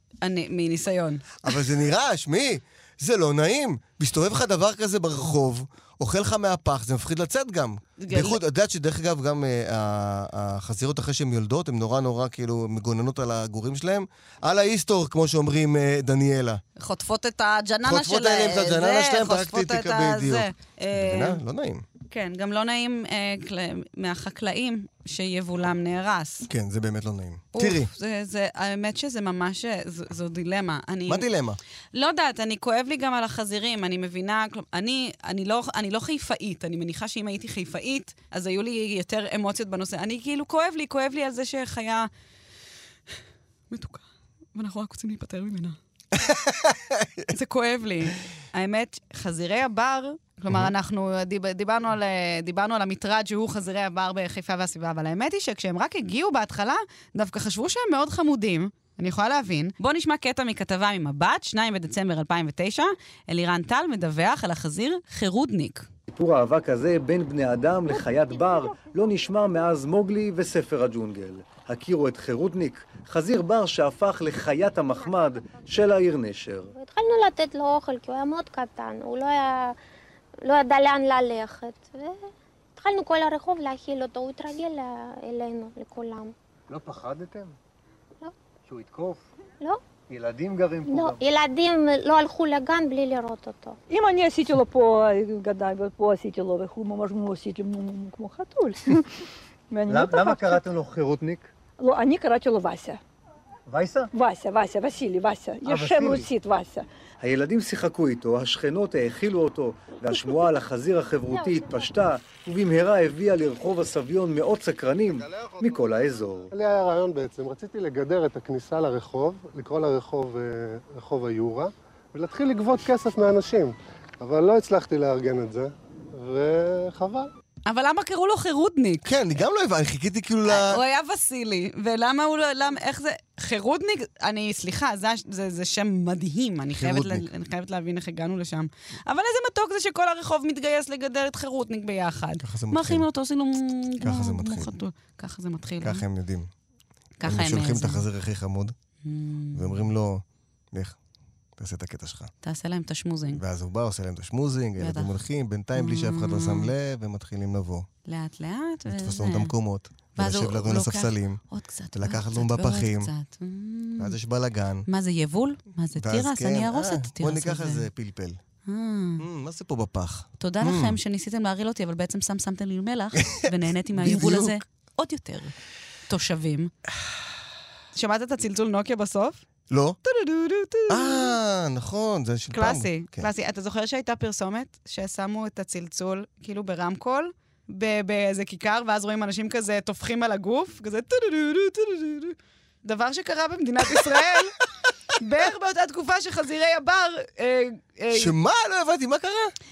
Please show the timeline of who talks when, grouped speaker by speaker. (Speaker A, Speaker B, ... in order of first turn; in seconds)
Speaker A: 0.2-1.6, 8.0-8.4, 16.8-21.4, 22.1-26.5, 27.6-31.3, 31.9-42.1, 43.7-45.8, 47.3-65.9, 127.7-129.1, 130.5-146.0, 147.2-148.1, 149.0-149.8, 152.4-153.4, 154.8-155.2, 155.8-156.7, 158.1-159.5, 160.2-164.2, 164.9-167.9, 168.7-169.2, 170.4-175.5, 176.1-176.7, 177.9-179.4, 180.0-181.3, 182.5-194.6, 195.2-198.3
Speaker B: 1.4-16.6, 17.8-21.9, 26.5-27.9, 31.1-31.6, 46.1-47.3, 129.0-130.8, 136.7-137.3, 142.4-143.1, 144.0-144.8, 145.8-146.5, 147.2-148.8, 149.5-151.0, 151.6-152.3, 153.4-157.9, 158.9-161.4, 161.9-163.1, 164.0-164.9, 166.0-168.4, 169.2-171.0, 173.9-174.6, 179.7-180.0, 180.9-183.3, 198.1-199.5
Speaker C: 66.1-76.7, 86.7-87.5, 88.7-89.2, 90.1-91.2, 99.9-101.5, 103.7-104.1, 105.7-106.3, 107.2-116.5
Speaker D: 76.8-79.8, 80.4-82.2, 82.8-86.3, 90.8-93.8
Speaker E: 93.9-99.0, 99.7-100.6, 101.8-103.0, 104.1-106.9
Speaker F: 116.5-127.3